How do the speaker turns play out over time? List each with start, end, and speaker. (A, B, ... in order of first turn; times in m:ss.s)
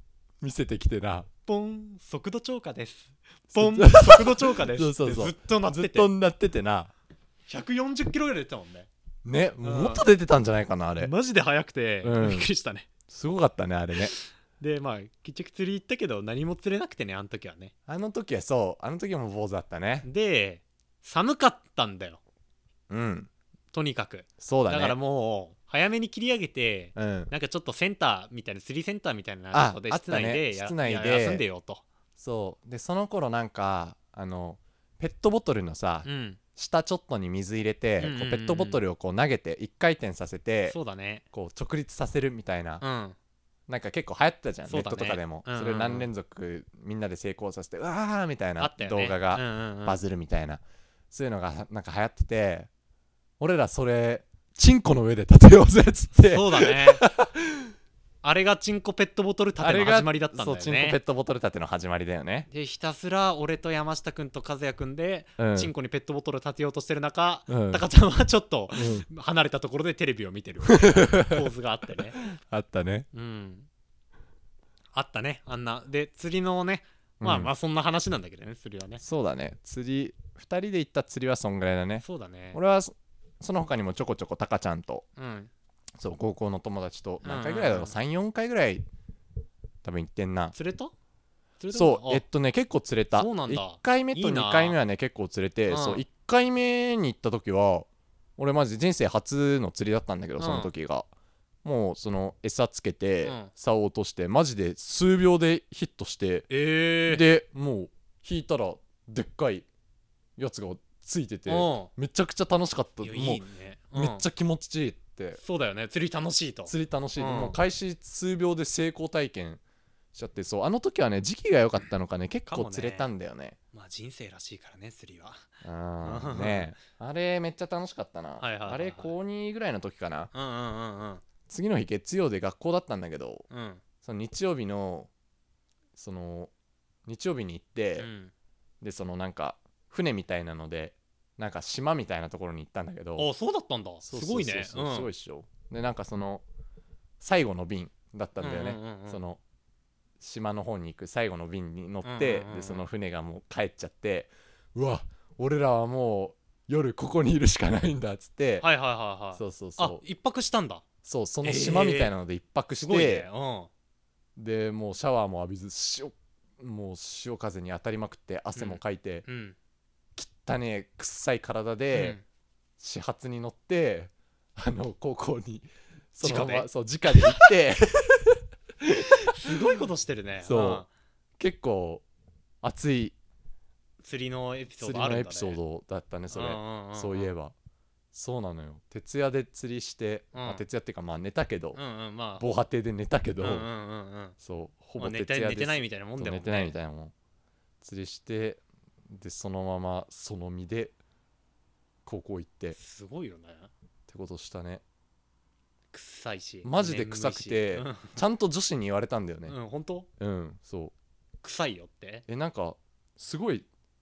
0:00.4-0:01.3 A
0:01.5-0:06.1 B
0:03.5-0:06.9 A
0:07.5-0:08.9 B
0:09.2-0:11.1 A
0:09.6-0:10.0 B
0:11.0-0:12.9 B
0:12.0-0:12.5 A
0:13.1-0:14.1 A
0:14.0-0:17.7 B
0:17.9-0:20.1 A
0:20.0-0:22.2 B
0:22.9-0:23.3 A
0:23.7-0:31.8 B
0:24.4-0:25.0 A
0:27.0-0:27.3 A
0:29.5-0:31.4 A
0:32.2-0:40.8 A
0:36.0-0:36.4 B
0:38.0-0:38.8 B
0:40.7-0:41.2 B
0:41.3-0:42.8 A
0:42.8-0:43.2 B
0:43.7-0:52.7 A
0:44.7-0:46.1 B
0:48.6-0:50.0 B
0:53.4-0:57.7 A
0:56.2-0:57.0 B
0:58.2-1:01.0 B
0:59.6-1:02.5 A
1:02.5-1:12.2 B
1:05.4-1:05.7 A
1:07.5-1:07.8 A
1:08.7-1:09.1 A
1:10.7-1:11.4 A
1:12.1-1:13.0 A
1:13.1-1:13.7 B
1:14.9-1:19.0 B
1:17.2-1:17.5 A
1:19.0-1:25.0 A
1:22.0-1:22.6 B
1:25.2-1:25.5 B
1:26.0-1:28.8 A
1:27.2-1:27.9 B
1:29.8-1:30.5 A
1:30.5-1:30.9 B
1:31.6-1:32.2 B
1:31.7-1:41.1 A
1:33.2-1:34.8 B
1:35.7-1:36.0 B
1:40.4-1:40.7 B
1:41.6-1:46.5 A
1:43.2-1:43.5 B
1:46.5-1:47.2 B
1:47.0-1:49.6 A
1:50.4-1:53.4 A
1:51.5-1:51.9 B
1:53.0-1:54.2 B
1:53.9-1:55.4 A
1:55.4-1:57.6 B
1:56.6-1:59.6 A
2:00.1-2:03.6 A
2:02.5-2:03.1 B
2:03.7-2:05.5 B
2:05.6-2:10.3 A
2:06.0-2:06.7 B
2:08.4-2:09.1 B
2:10.3-2:11.2 B
2:11.5-2:13.4 A
2:13.5-2:13.8 B
2:14.0-2:15.1 A
2:16.0-2:16.5 A
2:17.1-2:18.1 A
2:18.0-2:18.3 B
2:18.8-2:23.3 A
2:23.2-2:25.1 B
2:24.0-2:26.4 A
2:27.2-2:29.4 A
2:28.4-2:29.2 B
2:30.2-2:38.7 A
2:32.0-2:32.8 B
2:38.6-2:40.8 B
2:39.3-2:40.0 A
2:41.0-2:43.3 A
2:41.4-2:42.1 B
2:42.8-2:43.7 B
2:44.4-2:49.2 A
2:48.6-2:49.6 B
2:50.2-2:52.2 A
2:51.9-2:52.2 B
2:52.8-2:59.7 A
2:56.2-2:57.5 B
2:59.3-3:00.9 B
3:00.4-3:00.8 A
3:01.4-3:02.0 A
3:02.6-3:03.1 A
3:04.0-3:05.6 B
3:04.8-3:07.5 A
3:06.3-3:07.3 B
3:08.1-3:11.8 A
3:10.3-3:10.6 B
3:11.7-3:12.5 B
3:12.4-3:13.7 A
3:13.4-3:14.4 B
3:14.4-3:17.1 A
3:15.0-3:16.7 B
3:17.8-3:20.9 A
3:22.0-3:22.8 A
3:22.8-3:23.7 B
3:24.1-3:24.8 A
3:25.9-3:28.1 B
3:26.6-3:29.6 A
3:29.5-3:30.1 B
3:30.2-3:30.9 A
3:31.4-3:32.2 B
3:32.3-3:33.6 A